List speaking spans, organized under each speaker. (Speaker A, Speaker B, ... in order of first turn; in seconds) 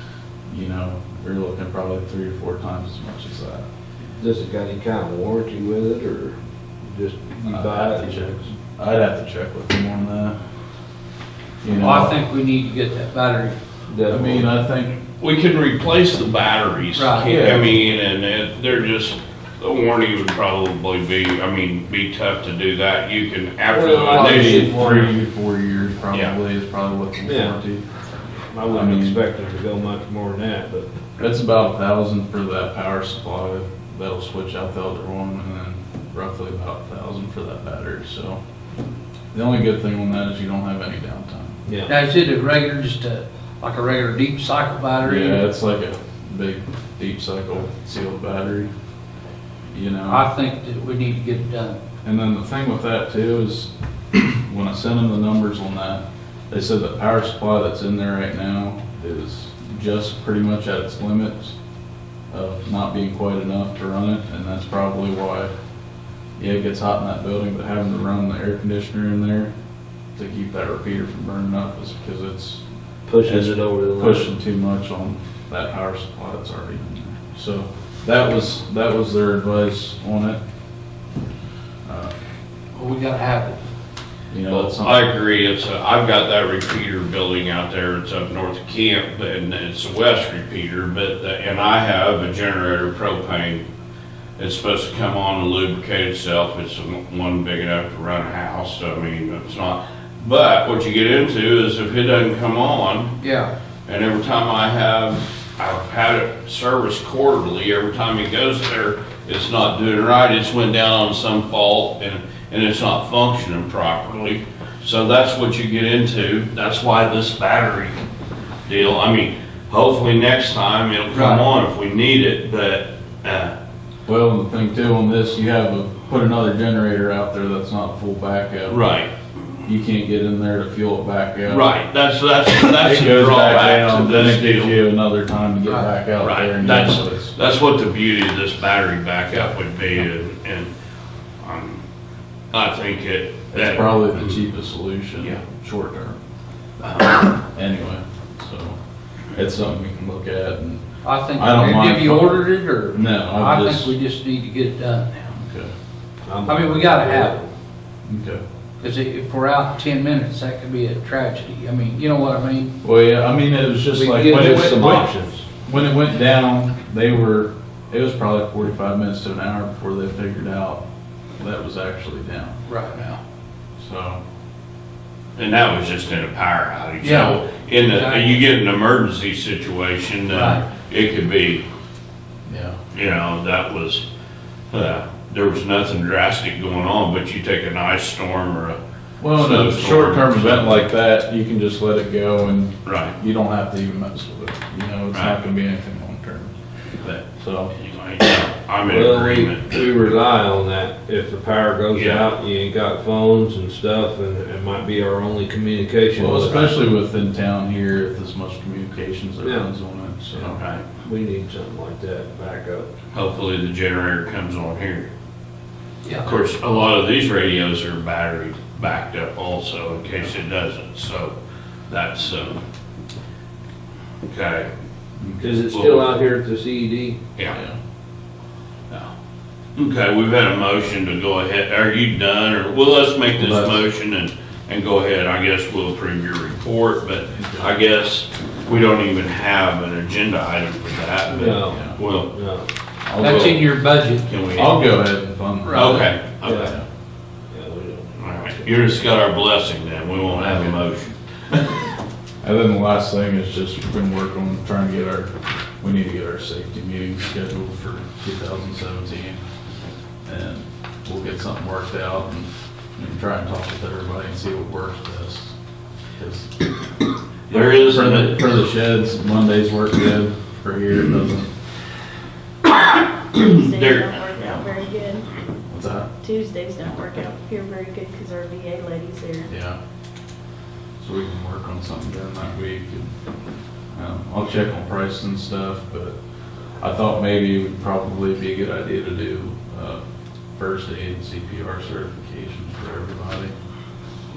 Speaker A: 0.5-3.7, 7.5-10.4, 11.6-12.2, 14.1-15.0, 17.2-17.7, 24.0-27.8, 28.7-29.2, 31.2-38.4, 39.3-41.6, 45.0-48.7, 49.7-50.3, 52.0-61.6, 62.3-65.5, 66.4-69.5, 70.1-72.6, 73.2-80.4, 81.8-82.1, 84.3-85.0, 124.0-128.8, 129.6-131.7, 132.8-137.3, 143.5-146.2, 147.5-148.8, 149.3-150.8, 151.3-153.9, 155.2-155.7, 158.1-158.4, 162.8-170.8, 171.4-172.6, 173.8-174.2, 182.5-182.8, 189.2-196.5, 197.4-197.7, 206.2-210.6, 225.2-225.6, 227.5-227.8, 233.4-233.8, 237.3-237.7, 241.6-242.0, 243.1-243.6, 244.5-246.8, 252.4-259.4, 260.2-265.6, 266.2-266.5, 267.6-271.5, 275.7-276.1, 279.5-279.8, 281.0-283.1, 283.9-286.1, 286.8-290.0, 290.6-293.6
Speaker B: 4.2-8.4, 13.9-14.5, 23.7-25.1, 27.2-27.6, 28.5-30.9, 41.7-42.0, 73.1-74.3, 156.2-157.5, 164.0-165.4, 198.9-206.8, 209.4-209.7, 211.0-212.9, 225.4-227.2, 241.3-241.8, 242.3-242.7, 246.4-246.7, 247.5-248.7
Speaker C: 11.8-13.6, 16.9-17.3, 41.9-45.5, 50.1-51.8, 82.7-83.6, 103.2-103.5, 121.1-121.5, 135.7-135.9, 151.0-155.1, 156.5-157.3, 158.8-162.7, 164.0-164.8, 172.7-173.1, 177.0-178.4, 180.3-180.6, 243.2-244.3, 245.7-246.1
Speaker D: 15.2-24.6, 84.5-93.6, 94.4-103.2, 103.9-118.0, 118.7-123.5, 128.7-129.1, 131.4-134.8, 136.2-140.7, 141.4-141.8, 142.5-144.3, 146.8-147.2, 175.3-181.6, 182.9-184.0, 184.7-188.8, 189.3-190.8, 192.8-193.2, 195.1-195.4, 197.0-199.8, 201.9-202.3, 210.5-210.8, 213.1-215.1, 216.2-221.3, 221.9-222.6, 224.2-224.7, 225.6-226.2, 229.8-242.3, 243.2-243.7, 244.2-244.8, 245.7-246.7, 248.2-251.8, 267.5-268.4, 273.2-274.6
Speaker E: 273.4-275.3, 276.2-279.5